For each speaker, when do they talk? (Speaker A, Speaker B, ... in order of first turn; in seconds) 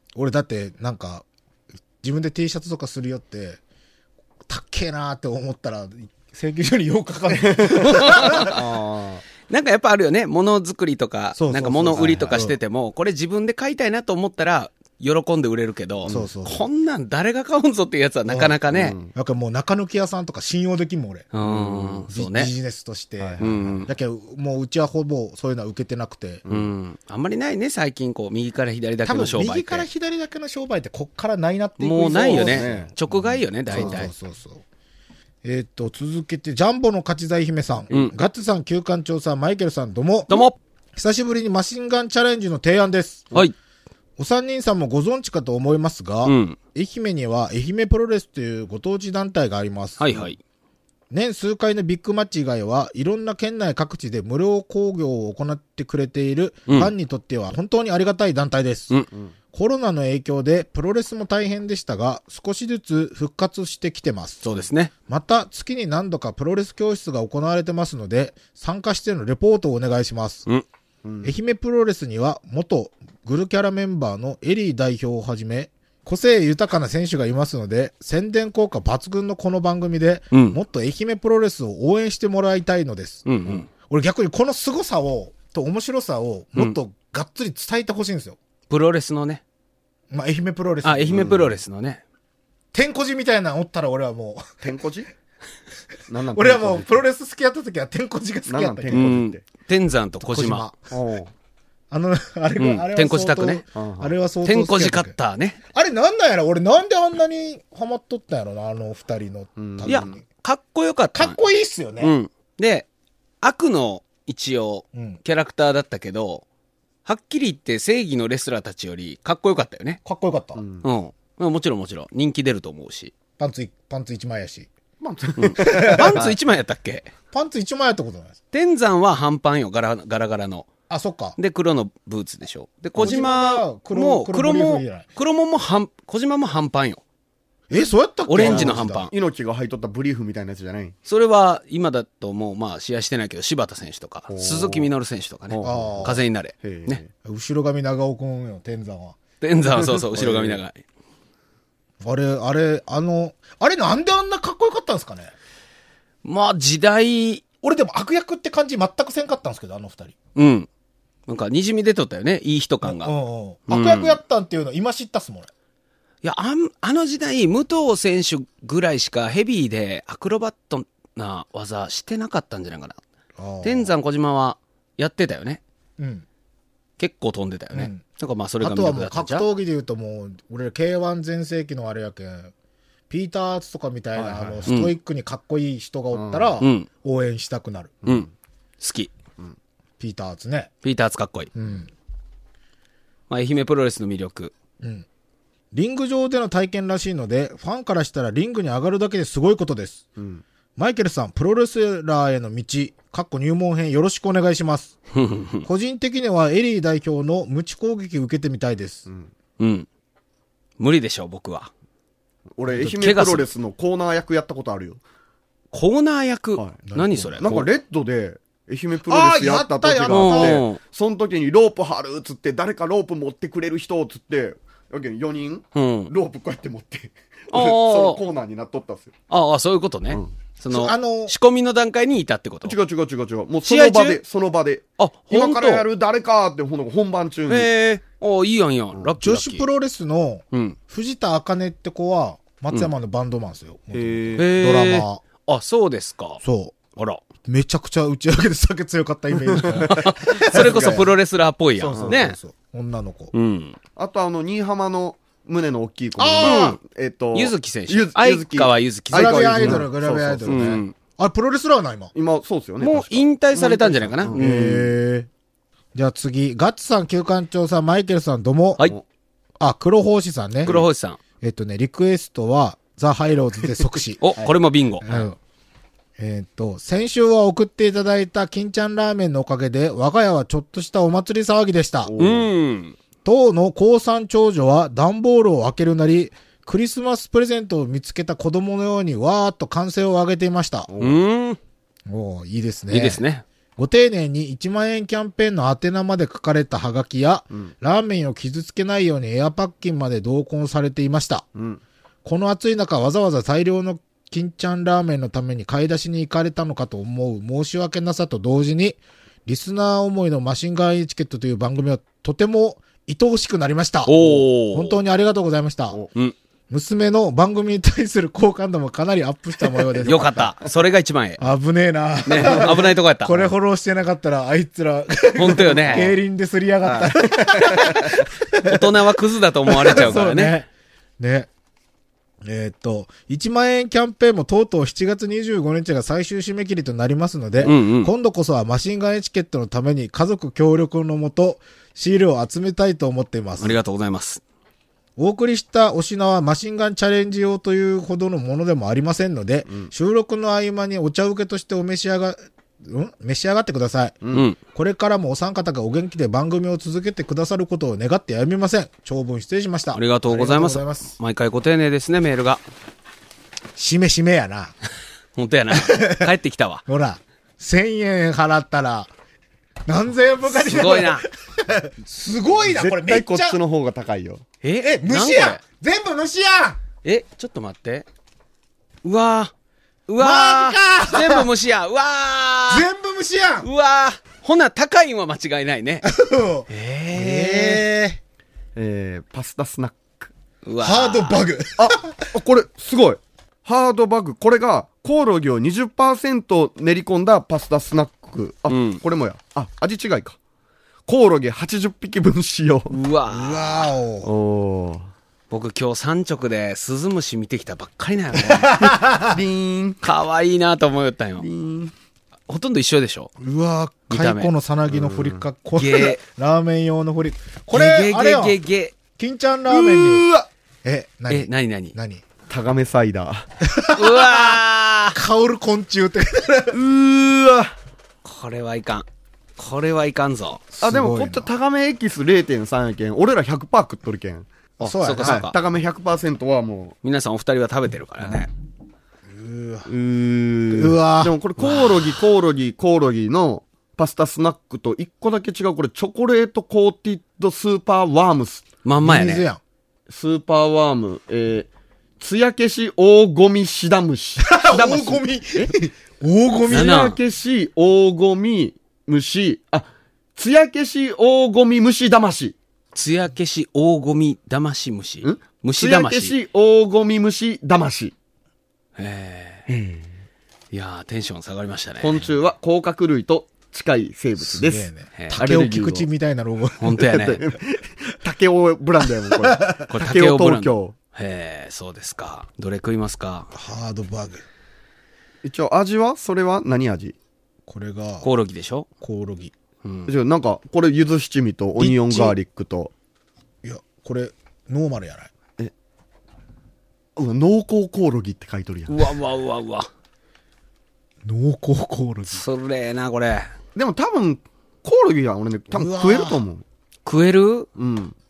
Speaker A: 0.1-1.2, 2.0-3.6, 4.5-8.5, 11.3-12.6, 16.1-16.6, 18.3-18.5, 19.1-21.3, 22.1-26.4, 29.0-34.6, 35.4-43.3, 44.2-50.2, 51.1-59.0, 59.5-64.4, 65.1-70.5, 71.2-83.2, 83.8-88.4, 90.1-91.3, 92.7-94.5, 96.3-99.1, 100.2-100.9, 101.9-105.1, 105.7-110.2, 111.1-112.1, 114.9-115.2, 120.0-120.6, 123.4-124.7, 125.6-126.3, 127.3-128.4, 130.9-131.4, 133.0-135.1, 137.7-139.1, 145.6-146.2, 147.2-149.2, 152.0-155.3, 157.6-160.1, 162.8-165.5, 173.4-173.9, 176.0-176.2, 177.7-178.0, 178.6-182.5, 183.1-188.0, 190.0-190.7, 191.5-191.9, 195.7-200.1, 200.8-204.9, 205.6-209.1, 216.9-217.4, 219.1-220.6, 230.7-231.3, 239.2-245.2, 246.4-246.8, 247.4-251.0, 251.8-253.3, 256.2-256.7, 259.1-262.1, 264.3-265.3, 265.9-268.8, 269.6-270.7, 271.4-274.4, 275.0-275.4, 276.2-282.1, 283.2-290.9, 292.1-293.2, 293.8-301.4, 302.2-316.0, 316.7-320.6, 321.4-329.0, 329.7-330.7, 331.2-331.5, 332.4-343.8, 345.2-361.1, 363.8-364.7, 365.7-366.3, 366.9-369.1, 369.9-373.6, 374.8-376.8, 380.2-381.5, 382.7-383.7, 386.0-388.2, 390.8-392.3, 403.3-404.3, 408.4-409.4, 413.4-418.6, 419.1-420.3, 420.8-422.2, 423.6-424.6, 425.1-426.8, 430.7-431.5, 434.8-435.4, 439.3-439.9, 440.7-441.3, 449.0-449.6, 454.4-457.1, 474.4-477.1, 479.3-479.8, 483.5-484.4, 487.7-488.2, 489.0-489.5, 491.8-492.3, 493.6-495.3, 501.2-502.4, 505.7-506.4
Speaker B: 7.3-9.2, 18.7-19.1, 21.4-22.0, 23.2-23.8, 32.2-32.9, 33.7-34.0, 71.0-71.3, 91.1-91.5, 94.6-95.1, 96.1-97.0, 98.5-99.4, 100.9-101.3, 103.7-104.1, 109.6-110.2, 120.5-120.8, 125.0-126.3, 138.4-140.9, 144.3-144.9, 145.5-147.1, 149.7-150.6, 184.1-184.7, 186.1-186.5, 188.0-188.3, 200.2-200.4, 212.6-215.0, 216.6-216.8, 217.4-229.1, 232.6-237.7, 243.9-244.5, 249.4-251.1, 251.8-252.2, 253.9-260.7, 262.1-264.9, 282.0-282.5, 290.9-291.2, 301.5-301.8, 325.4-326.1, 326.8-328.2, 354.2-354.5, 372.7-374.4, 388.8-390.3, 391.8-400.4, 401.1-402.9, 404.2-405.1, 408.8-410.0, 411.4-411.9, 414.9-415.4, 419.7-420.5, 422.5-423.5, 426.7-427.7, 430.8-434.5, 435.2-436.9, 439.9-448.6, 450.1-455.7, 456.7-462.6, 465.2-468.1, 469.7-470.1, 472.0-476.1, 477.0-480.9, 485.4-487.1, 490.1-492.9, 497.1-499.0, 503.7-506.6, 507.8-508.1
Speaker C: 7.8-8.5, 9.5-18.9, 21.3-22.5, 23.4-23.9, 26.5-29.9, 31.8-34.1, 40.3-40.5, 46.2-46.6, 50.0-50.4, 56.7-56.9, 64.4-64.9, 80.3-80.6, 83.2-83.7, 88.7-89.4, 90.8-92.0, 98.9-100.7, 102.6-103.6, 104.4-105.6, 109.9-111.4, 112.0-112.8, 113.4-116.4, 117.0-120.0, 120.8-123.1, 125.4-127.1, 128.5-130.7, 131.4-137.0, 138.3-139.1, 141.1-147.0, 149.4-150.8, 156.2-157.4, 160.3-160.7, 161.3-163.1, 163.7-164.2, 166.2-173.0, 173.6-175.6, 177.0-179.5, 184.7-184.9, 186.6-186.9, 188.8-189.1, 190.8-191.5, 193.3-194.5, 205.1-205.6, 209.6-209.9, 210.8-211.7, 212.8-213.5, 215.7-217.7, 220.1-220.8, 225.7-226.1, 227.5-228.2, 229.3-232.7, 233.6-234.2, 235.0-235.8, 237.5-239.7, 240.5-240.8, 244.4-246.4, 246.9-247.2, 249.7-252.4, 253.3-253.8, 256.4-256.8, 257.3-259.9, 260.5-260.9, 262.8-264.8, 270.6-271.2, 274.2-275.3, 282.2-283.0, 291.0-291.6, 292.9-293.4, 314.1-315.0, 320.0-321.4, 322.2-323.4, 325.3-326.1, 328.6-330.6, 337.6-338.1, 343.6-344.4, 354.3-354.6, 359.9-362.6, 365.4-366.8, 370.5-371.3, 374.6-375.6, 377.0-378.1, 379.0-379.5, 380.1-382.9, 383.6-386.1, 386.7-387.8, 390.6-391.4, 398.7-399.0, 402.9-403.9, 405.5-408.7, 410.0-411.4, 412.5-413.3, 414.1-414.5, 415.8-416.2, 417.7-418.9, 421.3-421.9, 423.9-425.2, 428.2-429.1, 429.6-430.6, 434.8-435.5, 437.0-438.5, 441.6-442.0, 448.8-449.4, 456.7-457.2, 462.9-466.4, 469.0-469.7, 470.7-472.3, 476.8-477.4, 479.9-483.5, 488.2-488.9, 489.8-490.1, 498.9-499.9, 502.3-503.5, 507.0-507.7